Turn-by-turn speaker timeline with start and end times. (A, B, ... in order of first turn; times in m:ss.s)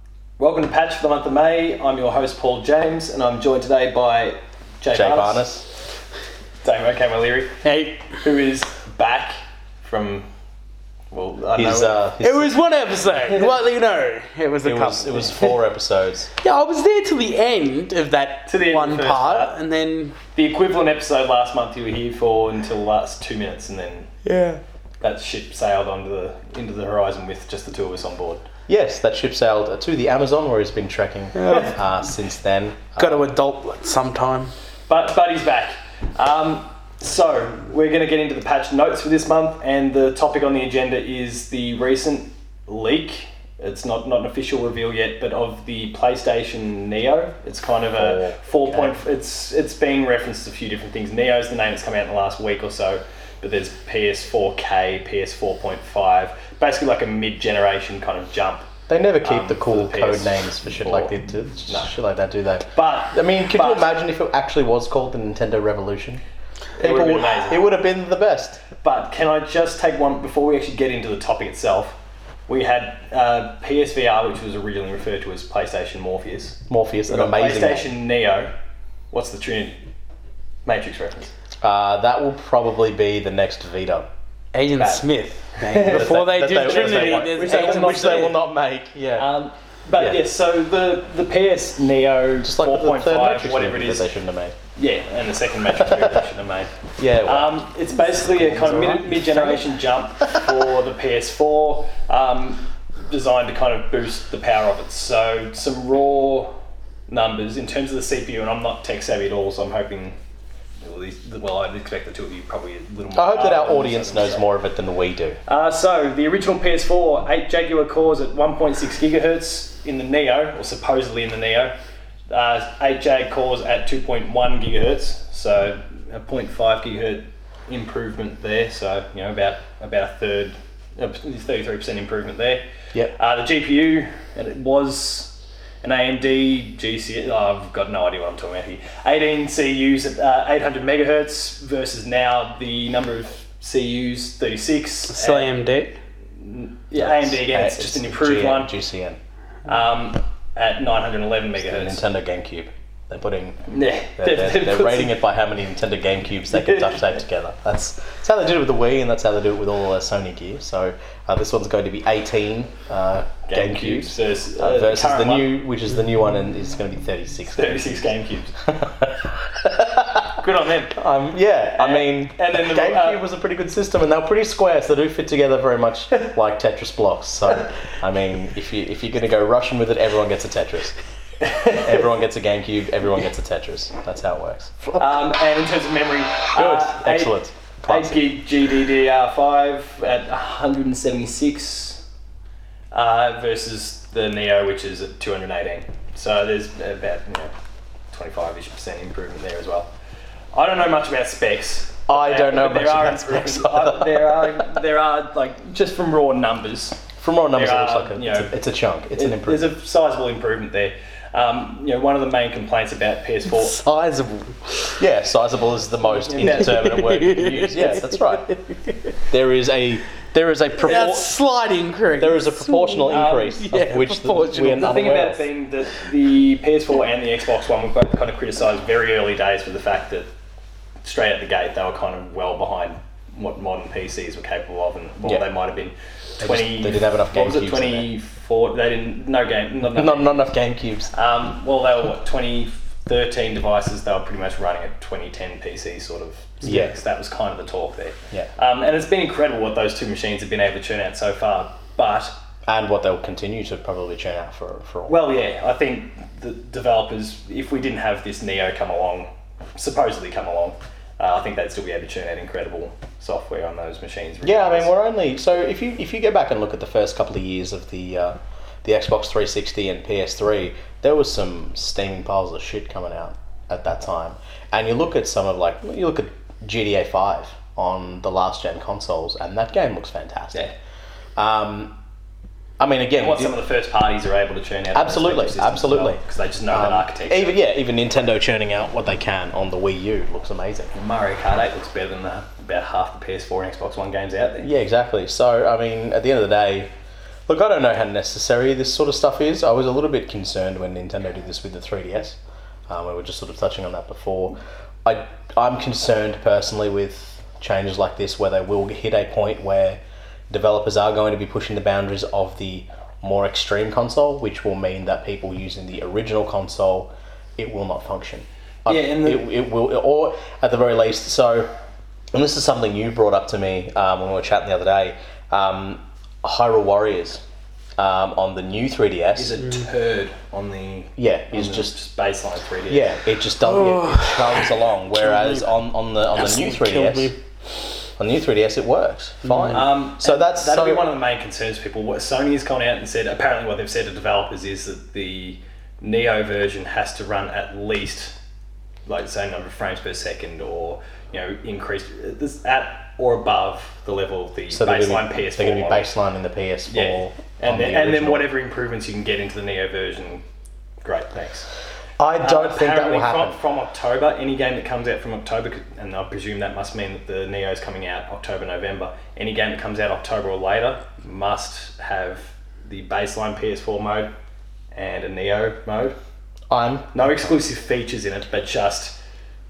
0:00.4-0:05.5 A
0:04.9-0:05.7 B
0:06.6-0:10.3 A
0:07.6-0:08.2 C
0:11.1-0:12.1 A
0:11.6-0:12.5 B
0:12.2-0:15.6 C
0:14.6-0:16.3 B
0:16.4-0:20.2 C
0:18.5-0:19.5 A
0:20.4-0:24.1 A
0:24.2-0:24.6 C
0:25.0-0:28.4 A
0:28.7-0:33.2 B
0:31.4-0:31.7 C
0:33.0-0:34.5 C
0:34.9-0:58.7 A
0:48.0-0:49.0 B
0:58.9-1:06.2 B
0:59.2-1:01.1 A
1:02.8-1:03.9 A
1:06.8-1:07.6 A
1:06.8-1:08.6 B
1:08.8-1:18.5 A
1:16.7-1:17.9 B
1:19.1-1:19.8 A
1:20.6-1:21.3 A
1:21.6-1:24.1 B
1:24.5-1:28.3 C
1:24.8-1:25.0 A
1:25.6-1:28.4 A
1:25.9-1:29.3 B
1:29.2-1:34.1 A
1:30.0-1:30.2 B
1:32.4-1:34.6 B
1:34.8-1:36.7 A
1:35.8-1:36.3 B
1:37.0-1:37.6 B
1:37.2-1:46.6 A
1:38.2-1:39.6 B
1:47.1-1:50.2 A
1:50.8-1:54.5 A
1:53.1-1:55.4 B
1:55.5-2:01.8 A
2:02.3-2:12.6 A
2:13.2-2:25.5 A
2:25.1-2:26.0 C
2:26.4-2:28.7 A
2:27.0-2:29.2 B
2:29.7-2:32.1 A
2:31.6-2:33.6 B
2:33.7-2:35.1 A
2:34.2-2:48.1 B
2:36.5-2:37.2 A
2:43.5-2:45.6 A
2:47.6-2:48.6 A
2:48.6-2:50.4 B
2:50.4-2:51.0 A
2:51.0-3:01.0 B
2:51.7-2:53.3 A
3:01.4-3:02.1 A
3:01.8-3:05.3 B
3:05.0-3:07.4 A
3:06.5-3:08.2 B
3:07.9-3:12.0 A
3:12.9-3:17.5 A
3:18.1-3:19.9 A
3:20.5-3:28.6 A
3:22.1-3:24.7 B
3:27.2-3:29.7 B
3:29.1-3:33.8 A
3:33.5-3:35.0 C
3:35.0-3:38.6 B
3:36.1-3:37.0 A
3:36.7-3:38.5 C
3:39.2-3:41.3 B
3:40.8-3:45.0 C
3:40.8-3:41.1 A
3:42.2-3:45.4 B
3:43.1-3:43.6 A
3:44.8-3:50.3 A
3:51.0-4:00.5 A
3:56.4-3:58.1 B
3:59.9-4:01.1 B
4:01.1-4:12.3 A
4:06.6-4:07.0 B
4:12.7-4:15.2 B
4:15.1-4:24.9 A
4:24.4-4:40.7 B
4:41.4-4:42.0 B
4:42.8-4:43.6 B
4:43.2-4:47.6 A
4:44.9-4:50.9 B
4:50.9-4:54.7 A
4:54.6-4:56.9 B
4:57.5-5:02.4 B
5:02.9-5:21.7 B
5:18.9-5:19.5 A
5:22.3-5:27.4 B
5:28.0-5:29.6 B
5:29.4-5:33.1 A
5:31.2-5:32.0 B
5:32.9-5:37.3 B
5:33.7-5:34.4 C
5:35.2-5:35.7 C
5:36.3-5:37.4 C
5:38.2-5:41.1 B
5:39.4-5:39.7 C
5:39.7-5:48.4 A
5:49.1-5:56.1 A
5:54.7-5:58.5 B
5:56.9-6:00.4 A
6:01.0-6:01.7 A
6:02.2-6:03.6 B
6:02.4-6:14.3 A
6:14.9-6:16.2 A
6:16.7-6:17.5 B
6:17.1-6:19.2 A